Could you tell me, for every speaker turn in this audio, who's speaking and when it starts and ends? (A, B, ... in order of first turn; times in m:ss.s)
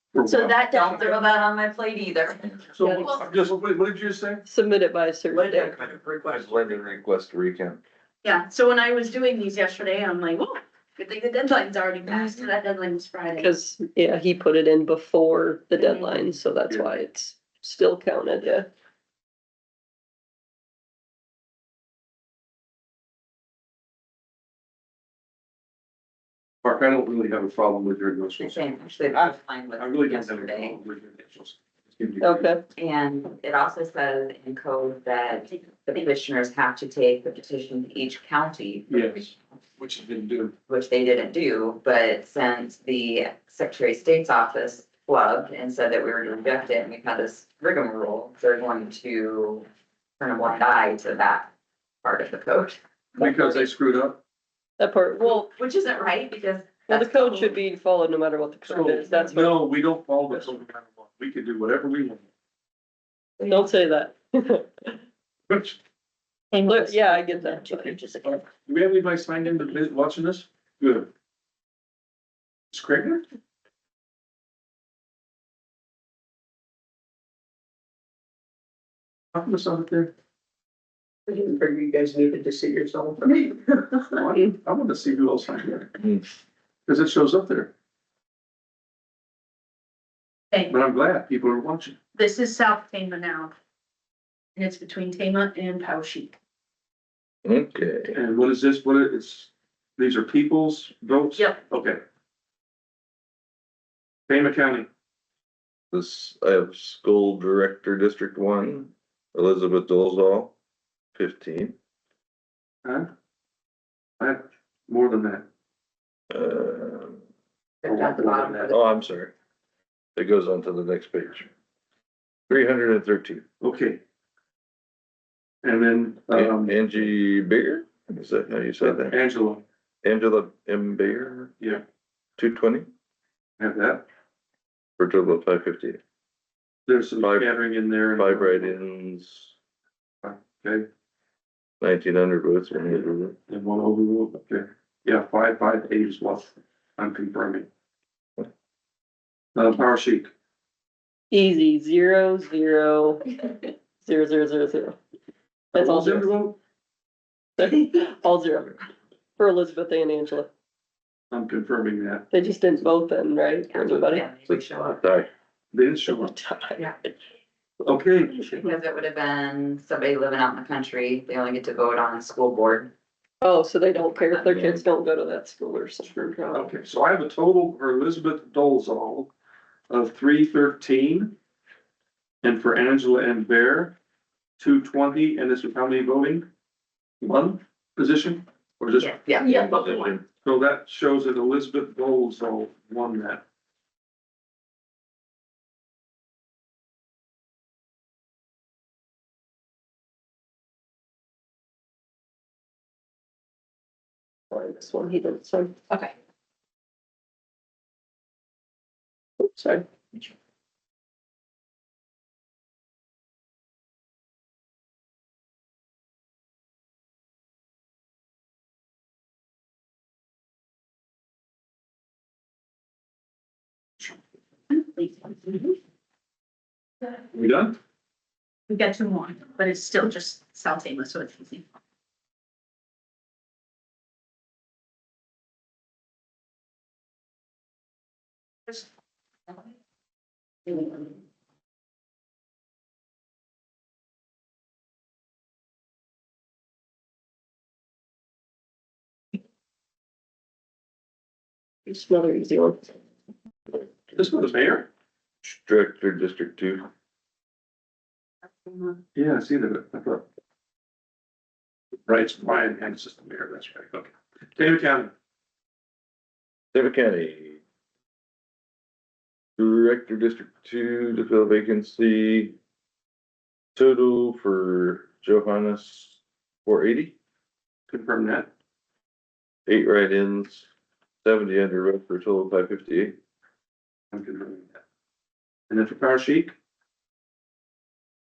0:00.1-0:00.6 A
0:00.2-0:01.2 B
0:00.6-0:02.5 C
0:02.7-0:04.4 A
0:02.9-0:03.2 B
0:04.4-0:05.8 D
0:05.3-0:06.8 E
0:06.2-0:07.8 F
0:08.2-0:13.5 B
0:13.3-0:18.7 D
0:15.7-0:16.3 B
0:16.7-0:17.0 A
0:26.6-0:32.5 A
0:28.4-0:30.8 C
0:32.2-0:32.6 D
0:32.8-0:39.2 C
0:38.9-0:40.5 A
0:40.7-0:49.6 C
0:50.2-0:53.7 C
0:53.2-0:54.2 A
0:54.8-0:55.4 D
0:55.2-0:57.6 C
0:56.9-0:59.6 D
0:58.6-1:02.3 A
1:00.3-1:00.5 D
1:03.4-1:05.0 D
1:05.5-1:05.8 A
1:06.5-1:07.9 B
1:06.6-1:08.3 D
1:07.5-1:08.1 E
1:08.2-1:11.1 A
1:12.7-1:13.2 A
1:19.3-1:20.1 A
1:21.3-1:24.0 E
1:24.1-1:25.9 A
1:26.0-1:26.2 F
1:26.8-1:27.7 A
1:30.5-1:30.8 B
1:30.7-1:32.0 A
1:32.1-1:33.5 B
1:34.6-1:36.3 B
1:37.4-1:38.2 F
1:38.1-1:42.0 A
1:44.3-1:44.9 A
1:45.9-1:50.5 F
1:51.1-1:51.8 F
1:54.2-1:55.4 A
1:56.3-1:57.2 F
1:57.8-1:58.9 C
1:57.8-1:58.7 A
1:58.7-1:59.3 F
2:00.2-2:01.5 F
2:02.5-2:03.4 F
2:03.6-2:04.0 A
2:05.6-2:07.0 A
2:06.3-2:09.1 F
2:08.8-2:09.6 A
2:10.0-2:11.6 F
2:12.4-2:12.9 F
2:13.6-2:14.0 A
2:15.0-2:16.0 F
2:16.8-2:18.8 A
2:17.2-2:17.5 F
2:18.2-2:19.5 F
2:20.2-2:20.9 A
2:21.8-2:23.4 F
2:23.5-2:27.7 A
2:29.5-2:30.3 A
2:31.3-2:35.0 D
2:35.7-2:36.3 D
2:35.7-2:36.6 A
2:37.6-2:38.8 D
2:39.4-2:40.5 D
2:41.3-2:42.2 A
2:42.3-2:44.3 D
2:43.7-2:45.0 C
2:44.4-2:45.3 F
2:45.7-2:46.4 A
2:46.0-2:47.1 D
2:47.8-2:48.7 A
2:48.6-2:52.9 C
2:53.4-2:56.7 D
2:54.0-2:54.7 C
2:54.5-2:54.8 F
2:56.5-2:59.3 A
2:59.9-3:01.4 A
3:02.4-3:04.0 A
3:04.6-3:06.4 A
3:07.2-3:09.2 A
3:09.0-3:09.8 C
3:09.4-3:10.2 F
3:09.4-3:10.1 B
3:10.3-3:13.4 A
3:24.5-3:25.8 D
3:29.4-3:29.8 D
3:44.7-3:45.7 B
3:47.3-3:47.8 A
3:48.7-3:51.6 B
4:00.7-4:01.1 B
4:11.8-4:12.9 D
4:14.1-4:14.9 A
4:15.4-4:16.9 F
4:18.6-4:19.0 B
4:19.1-4:20.2 A
4:22.1-4:25.1 A
4:26.7-4:27.6 F
4:29.6-4:32.5 F
4:33.7-4:37.1 F
4:37.9-4:38.5 A
4:39.7-4:40.7 F
4:41.2-4:43.2 F
4:44.1-4:44.8 A
4:45.7-4:46.5 A